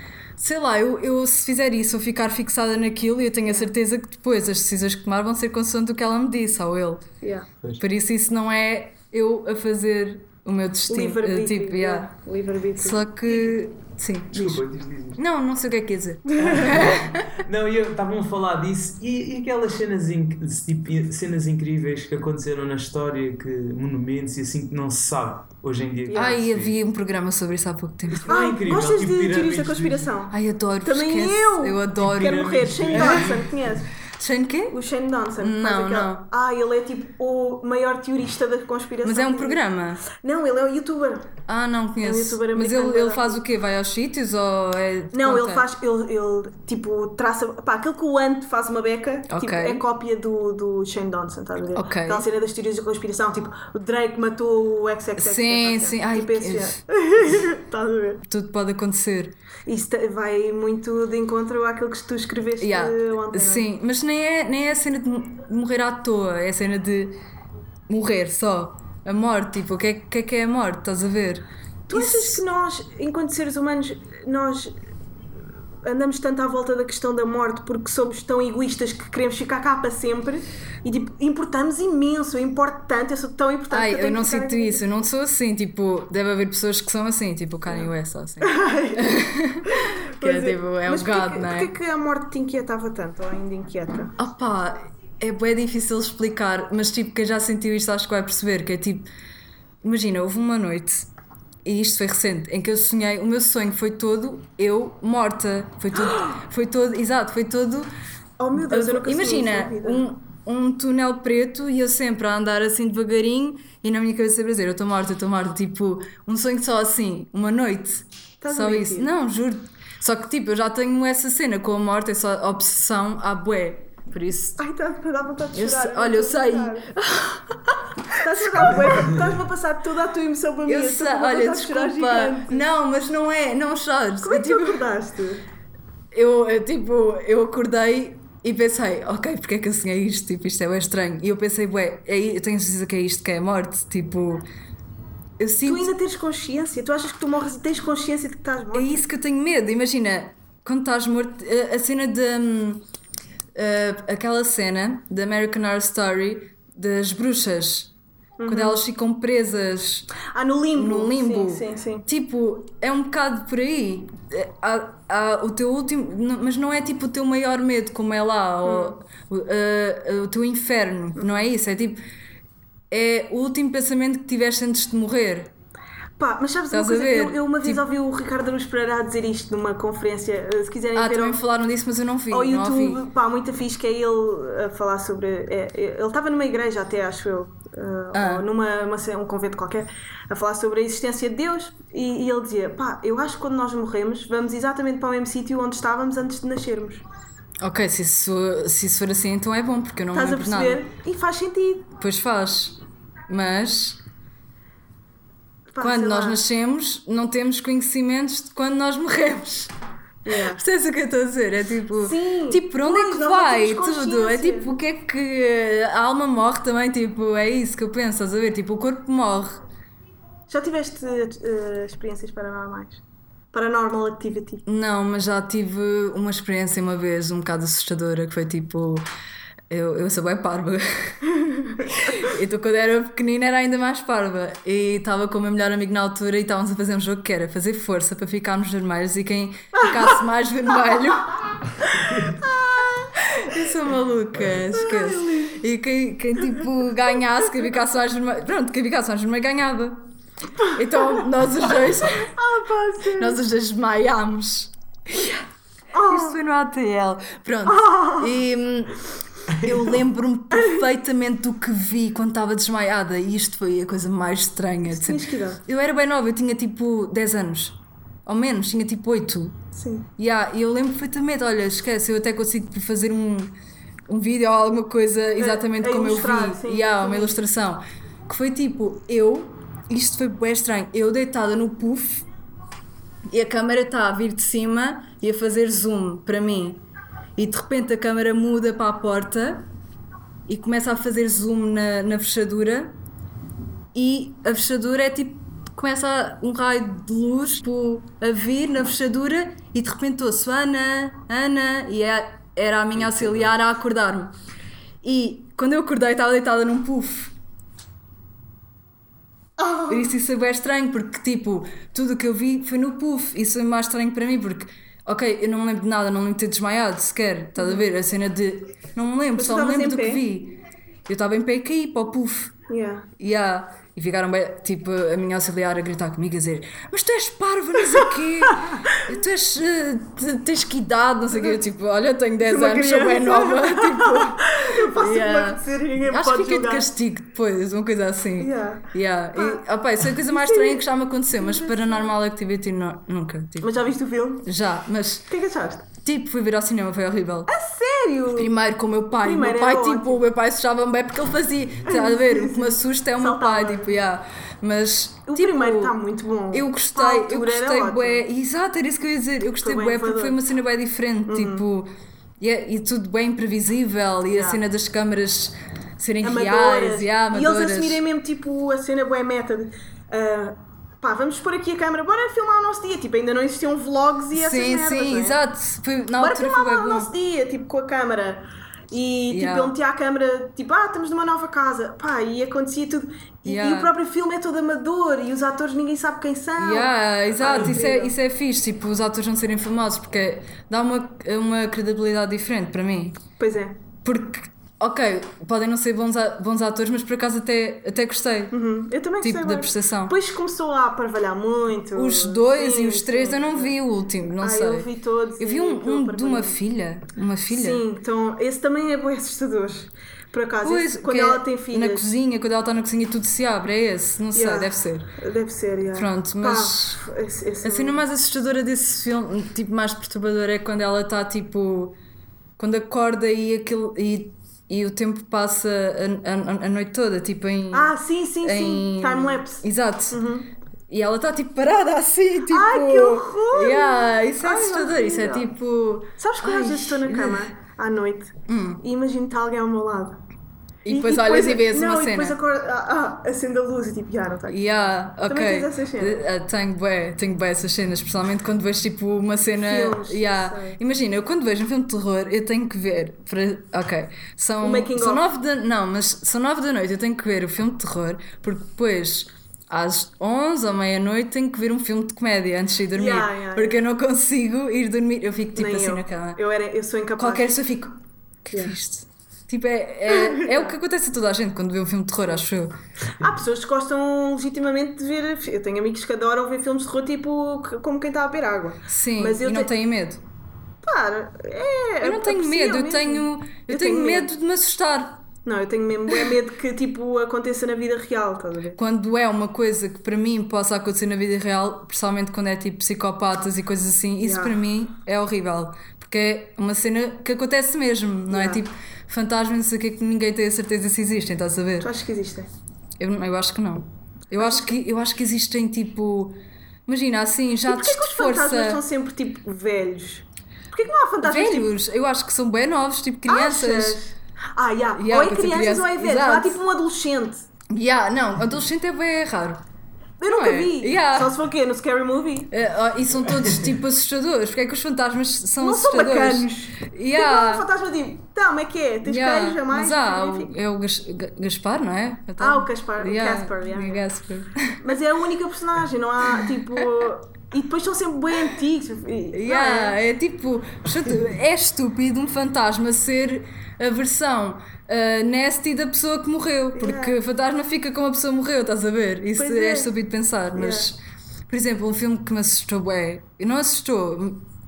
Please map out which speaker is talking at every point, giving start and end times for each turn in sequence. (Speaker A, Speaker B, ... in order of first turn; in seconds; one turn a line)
Speaker A: 0.4-7.0
Speaker B: 7.2-7.5
Speaker A: 7.8-12.1
Speaker B: 10.9-13.5
Speaker A: 12.8-14.6
Speaker C: 14.3-15.2
Speaker A: 15.2-17.4
Speaker C: 16.4-26.8
Speaker B: 26.1-26.4
Speaker A: 26.1-28.3
Speaker C: 28.1-30.1
Speaker B: 28.3-33.9
Speaker A: 30.3-33.4
Speaker C: 32.1-33.8
Speaker A: 34.2-34.8
Speaker B: 34.7-41.4
Speaker A: 35.4-36.3
Speaker A: 39.0-40.0
Speaker A: 41.5-45.7
Speaker B: 42.0-43.4
Speaker B: 45.1-58.2
Speaker A: 49.3-49.8
Speaker A: 51.7-52.3
Speaker A: 55.2-56.8
Speaker A: 58.3-59.4
Speaker B: 59.7-63.7
Speaker A: 62.6-67.2
Speaker A: 67.9-72.4
Speaker B: 71.9-74.8
Speaker B: 75.8-84.8
Speaker A: 83.7-91.7
Speaker B: 88.4-94.2
Speaker A: 94.2-99.1
Speaker A: 99.8-101.1
Speaker A: 101.7-107.9
Speaker B: 108.4-110.1
Speaker A: 108.6-124.6
Speaker B: 118.4-119.1
Speaker B: 124.6-126.9
Speaker A: 125.5-127.8
Speaker B: 128.2-132.7
Speaker A: 128.5-128.9
Speaker A: 130.7-134.9
Speaker B: 134.2-135.4
Speaker A: 136.1-144.5
Speaker A: 145.4-145.9
Speaker B: 145.6-149.0
Speaker A: 148.7-152.8
Speaker A: 153.6-157.9
Speaker B: 158.4-158.8
Speaker A: 158.5-160.1
Speaker B: 160.3-162.1
Speaker A: 160.7-172.0
Speaker B: 168.6-169.0
Speaker B: 171.2-171.4
Speaker A: 172.9-175.5
Speaker B: 176.2-181.4
Speaker A: 176.7-177.8
Speaker A: 180.9-183.0
Speaker B: 182.3-197.0
Speaker A: 188.1-188.5
Speaker A: 197.6-200.8
Speaker B: 200.1-201.9
Speaker A: 202.0-204.0
Speaker B: 205.7-206.4
Speaker A: 205.8-209.7
Speaker B: 210.2-210.6
Speaker A: 210.3-219.6
Speaker B: 212.0-214.7
Speaker B: 220.5-223.0
Speaker B: 223.5-224.6
Speaker A: 224.7-229.1
Speaker A: 229.7-231.2
Speaker B: 231.4-231.8
Speaker A: 232.0-241.4
Speaker B: 242.0-243.1
Speaker A: 243.3-250.1
Speaker B: 244.7-245.6
Speaker B: 250.6-251.2
Speaker A: 250.7-252.3
Speaker B: 252.0-253.4
Speaker A: 253.2-255.5
Speaker B: 255.9-256.4
Speaker A: 256.1-269.6
Speaker B: 257.6-258.4
Speaker B: 260.6-260.8
Speaker B: 264.9-265.6
Speaker B: 269.7-270.1
Speaker A: 270.2-273.5
Speaker A: 274.1-282.3
Speaker B: 275.4-277.4
Speaker A: 283.3-286.8
Speaker A: 287.4-289.7
Speaker A: 290.5-292.9
Speaker A: 293.9-304.3
Speaker C: 303.1-303.4
Speaker A: 305.0-307.3
Speaker B: 309.6-310.1
Speaker A: 309.9-322.6
Speaker B: 317.6-317.9
Speaker B: 319.4-320.2
Speaker B: 322.7-323.1
Speaker A: 323.2-343.8
Speaker B: 328.5-329.0
Speaker B: 332.4-336.9
Speaker B: 338.4-339.6
Speaker B: 340.1-342.1
Speaker B: 343.6-344.5
Speaker A: 344.4-345.3
Speaker B: 345.3-345.9
Speaker A: 345.9-347.5
Speaker B: 347.5-348.5
Speaker A: 348.3-356.0
Speaker B: 349.2-350.2
Speaker B: 351.9-354.0
Speaker B: 355.3-358.2
Speaker A: 356.5-368.0
Speaker B: 359.6-360.4
Speaker B: 361.3-361.6
Speaker B: 364.3-364.6
Speaker B: 366.2-375.4
Speaker A: 374.3-377.1
Speaker B: 376.2-388.1
Speaker A: 379.3-379.8
Speaker A: 383.4-383.9
Speaker A: 386.6-393.2
Speaker B: 393.4-393.8
Speaker A: 394.0-398.6
Speaker B: 398.5-403.8
Speaker A: 399.2-400.2
Speaker A: 401.9-407.8
Speaker B: 404.4-406.6
Speaker B: 407.5-412.1
Speaker A: 410.6-415.1
Speaker B: 414.3-418.0
Speaker A: 415.9-417.0
Speaker A: 417.6-422.0
Speaker A: 422.6-430.2
Speaker B: 427.7-430.5
Speaker A: 430.9-437.5
Speaker B: 432.5-435.5
Speaker B: 436.2-440.2
Speaker A: 438.5-438.8
Speaker A: 440.9-442.4
Speaker B: 440.9-446.3
Speaker A: 444.5-466.4
Speaker B: 449.6-450.8
Speaker B: 454.6-455.2
Speaker B: 462.9-463.8
Speaker B: 465.6-467.5
Speaker A: 467.2-472.8
Speaker B: 468.5-468.8
Speaker B: 470.1-470.7
Speaker B: 473.2-479.7
Speaker A: 478.9-480.2
Speaker B: 480.8-484.3
Speaker A: 482.0-485.2
Speaker B: 485.4-488.8
Speaker A: 488.8-501.9
Speaker B: 494.2-494.6
Speaker B: 498.3-498.6
Speaker B: 501.8-502.5
Speaker A: 503.0-508.8
Speaker B: 507.7-511.7
Speaker A: 511.2-514.0
Speaker B: 513.3-517.5
Speaker A: 514.9-516.6
Speaker A: 517.7-519.6
Speaker B: 520.2-522.5
Speaker A: 520.3-521.3
Speaker A: 522.5-527.7
Speaker B: 525.6-530.5
Speaker A: 529.0-535.0
Speaker B: 532.4-534.0
Speaker B: 534.8-540.0
Speaker A: 536.3-537.1
Speaker A: 539.3-554.5
Speaker B: 546.8-547.2
Speaker B: 549.4-549.9
Speaker B: 550.5-550.9